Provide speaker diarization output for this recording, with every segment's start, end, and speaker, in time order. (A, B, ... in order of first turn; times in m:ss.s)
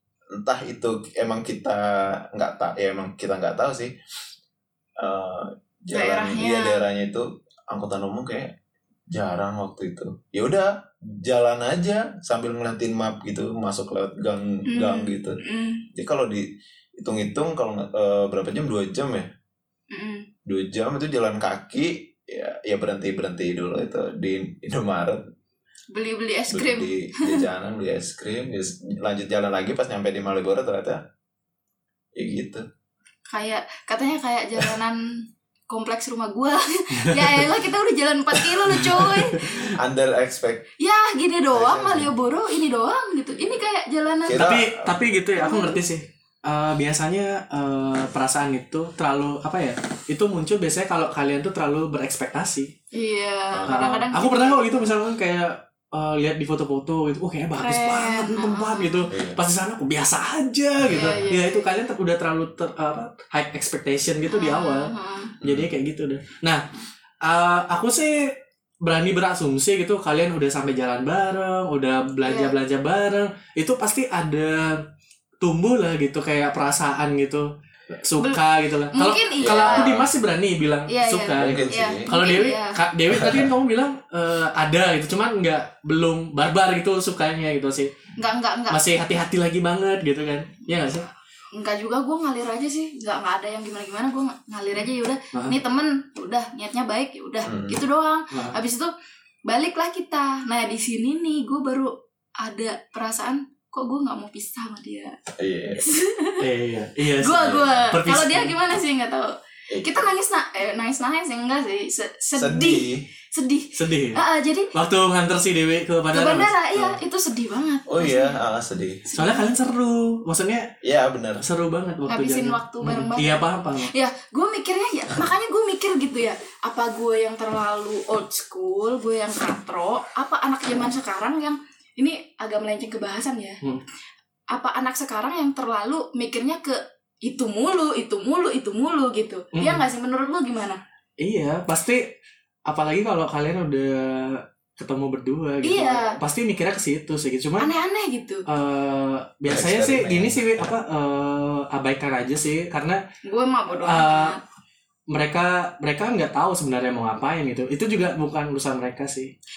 0:00.3-0:03.9 A
0:05.0-0:08.5 A
0:05.9-0:06.8 B
0:09.1-0:15.4 A
0:14.7-0:15.8 B
0:15.9-0:16.4 A
0:17.0-0:19.3 A
0:19.9-0:20.3 B
0:20.4-0:25.2 A
0:25.9-0:27.4 B
0:26.5-0:31.0 A
0:32.2-0:32.6 A
0:33.3-0:39.6 B
0:37.0-0:37.5 C
0:38.7-0:39.4 C
0:39.7-0:40.7 A
0:40.8-0:44.4 B
0:41.5-0:42.1 A
0:44.2-0:45.2 A
0:44.3-0:52.7 C
0:45.4-0:45.8 B
0:52.9-0:54.9 B
0:53.5-0:53.8 A
0:53.6-1:06.6 C
0:57.6-0:59.1 B
0:59.1-0:59.4 A
1:00.9-1:01.7 B
1:04.3-1:05.4 B
1:05.4-1:05.7 A
1:07.2-1:14.8 C
1:12.2-1:12.6 B
1:15.4-1:27.9 C
1:18.9-1:19.9 B
1:19.4-1:20.1 A
1:20.9-1:22.8 B
1:21.4-1:22.0 A
1:23.1-1:23.5 A
1:28.2-1:28.8 B
1:28.7-1:31.1 C
1:31.5-1:38.9 B
1:37.4-1:37.8 A
1:38.3-1:38.6 C
1:39.5-1:45.1 B
1:45.4-1:45.8 A
1:45.8-1:46.5 B
1:46.4-1:48.6 C
1:47.1-1:54.7 B
1:47.4-1:47.8 A
1:49.7-1:50.0 A
1:52.3-1:53.0 A
1:53.8-1:54.2 C
1:54.7-1:57.0 C
1:56.1-1:58.4 B
1:57.9-1:59.0 A
1:59.0-1:59.5 B
1:59.2-2:00.7 C
2:00.8-2:01.4 A
2:01.4-2:03.9 C
2:02.1-2:13.6 B
2:14.5-2:20.8 B
2:19.5-2:19.8 C
2:21.2-2:22.1 C
2:22.7-2:27.7 C
2:25.6-2:26.2 B
2:27.6-2:28.4 B
2:28.5-2:33.0 C
2:29.5-2:30.6 A
2:33.2-2:34.4 B
2:33.8-2:34.4 C
2:35.1-2:39.3 C